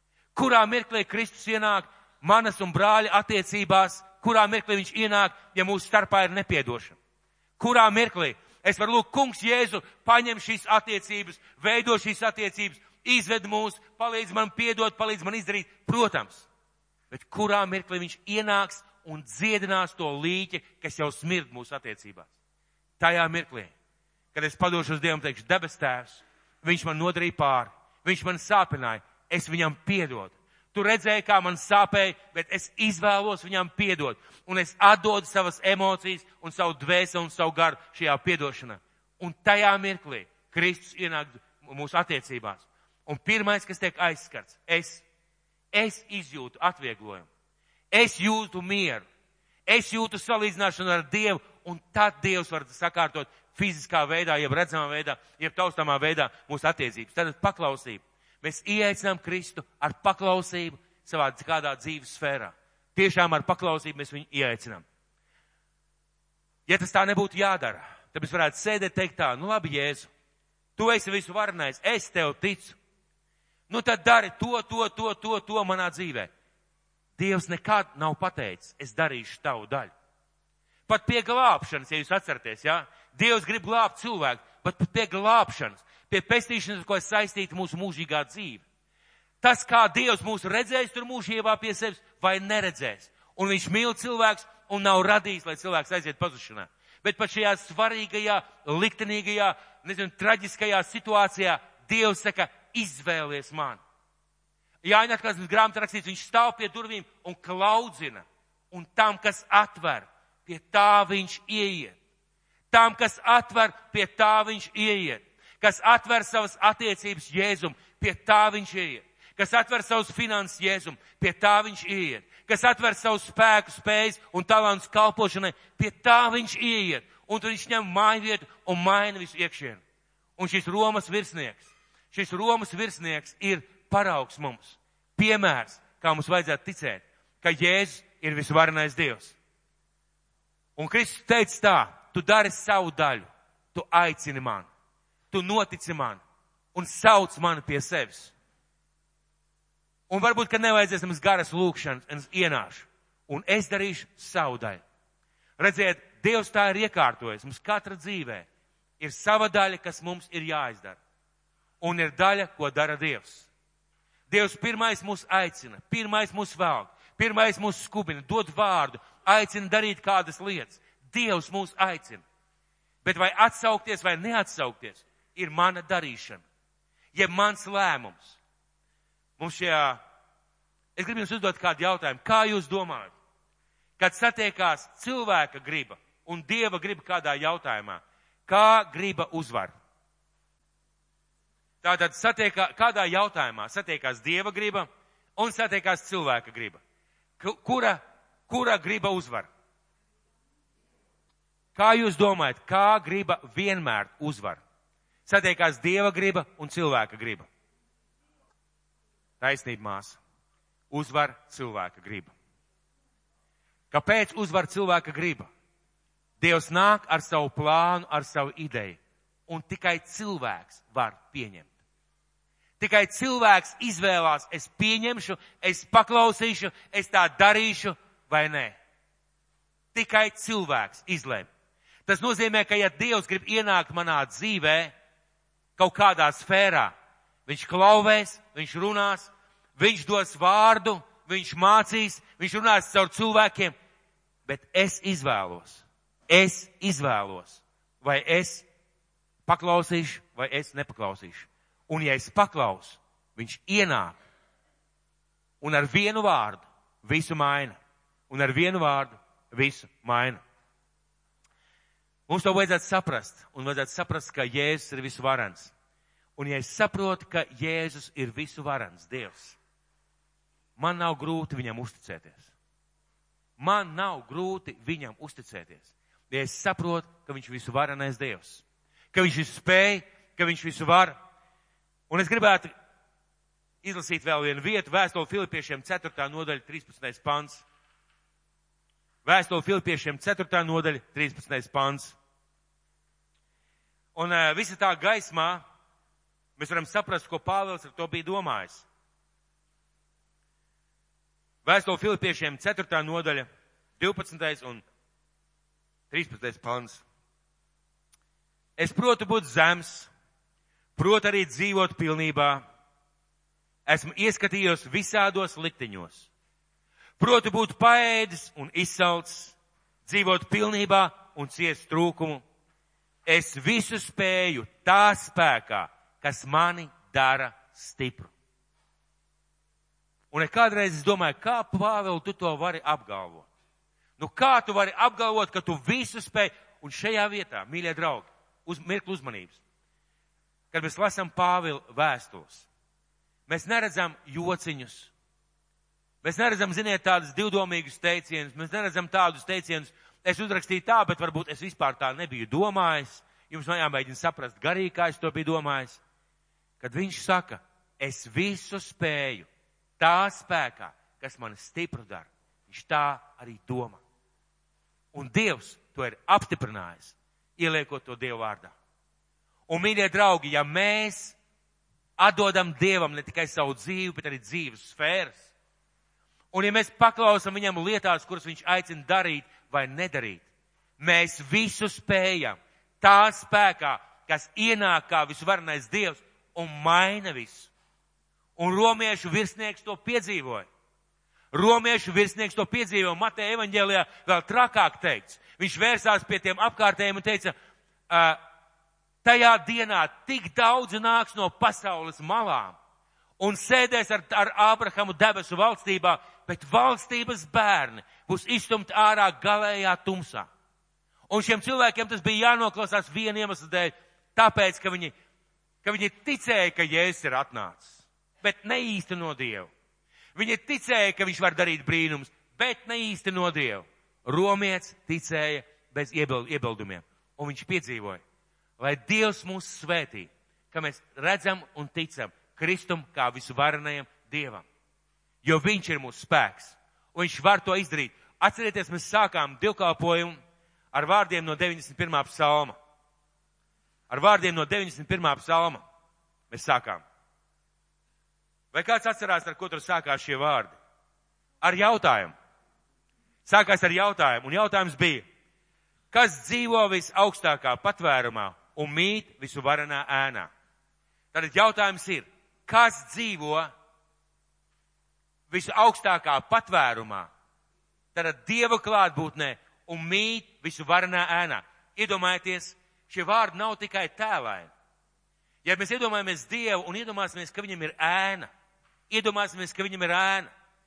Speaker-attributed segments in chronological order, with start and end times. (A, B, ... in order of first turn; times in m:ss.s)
0:00.3-0:07.0 A
0:07.6-0:16.5 A
0:17.1-0:22.3 A
0:23.0-0:23.7 A
0:24.3-0:45.0 A
0:45.7-0:47.3 A
0:47.9-0:49.0 A
0:49.6-1:04.8 A
1:06.7-1:10.1 A
1:10.8-1:12.8 A
1:13.7-1:16.3 A
1:17.2-1:19.9 A
1:20.9-1:28.6 A
1:29.4-1:43.8 A
1:44.8-1:52.0 A
1:52.7-2:09.8 A
2:10.4-2:19.4 A
2:20.8-2:24.7 A
2:25.3-2:26.2 A
2:26.7-2:28.3 A
2:30.1-2:34.8 A
2:35.6-2:38.5 A
2:39.0-2:41.0 A
2:41.8-2:43.5 A
2:44.3-2:52.2 A
2:53.0-2:56.4 A
2:57.1-2:58.4 A
2:59.4-3:00.0 A
3:01.0-3:03.1 A
3:04.0-3:09.7 A
3:11.8-3:16.8 A
3:17.4-3:19.5 A
3:21.8-3:24.6 A
3:25.2-3:27.5 A
3:29.4-3:30.2 A
3:30.9-3:32.3 A
3:33.9-3:35.5 A
3:36.4-3:41.7 A
3:42.8-3:48.8 A
3:49.9-3:51.5 A
3:52.0-3:54.9 A
3:55.8-3:56.9 A
3:57.4-4:03.8 A
4:04.4-4:08.6 A
4:09.5-4:14.2 A
4:15.6-4:20.4 A
4:22.3-4:25.7 A
4:26.4-4:29.6 A
4:30.8-4:32.5 A
4:33.6-4:41.2 A
4:42.1-4:42.7 A
4:43.8-4:47.6 A
4:49.2-4:52.2 A
4:54.1-4:55.6 A
4:56.6-4:58.8 A
5:01.6-5:03.5 A
5:04.0-5:04.8 A
5:06.1-5:07.0 A
5:08.8-5:10.1 A
5:11.0-5:12.6 A
5:13.8-5:16.3 A
5:17.2-5:22.4 A
5:23.2-5:28.3 A
5:30.3-5:33.5 A
5:34.2-5:39.6 A
5:40.7-5:42.7 A
5:43.5-5:45.1 A
5:46.2-5:56.0 A
5:56.8-5:59.5 A
6:00.0-6:04.0 A
6:05.1-6:08.7 A
6:09.7-6:11.4 A
6:12.2-6:15.5 A
6:16.5-6:20.4 A
6:21.0-6:27.7 A
6:28.6-6:30.7 A
6:31.5-6:37.5 A
6:38.1-6:38.4 A
6:39.2-6:42.8 A
6:43.4-6:50.5 A
6:51.3-6:55.1 A
6:55.8-6:59.7 A
7:00.3-7:08.2 A
7:08.8-7:14.6 A
7:15.4-7:20.4 A
7:20.9-7:22.8 A
7:24.1-7:25.8 A
7:26.5-7:27.0 A
7:28.7-7:30.8 A
7:31.6-7:32.3 A
7:33.4-7:35.2 A
7:36.1-7:40.5 A
7:41.3-7:43.7 A
7:45.5-7:47.3 A
7:48.1-7:54.7 A
7:55.6-7:58.5 A
7:59.1-8:00.5 A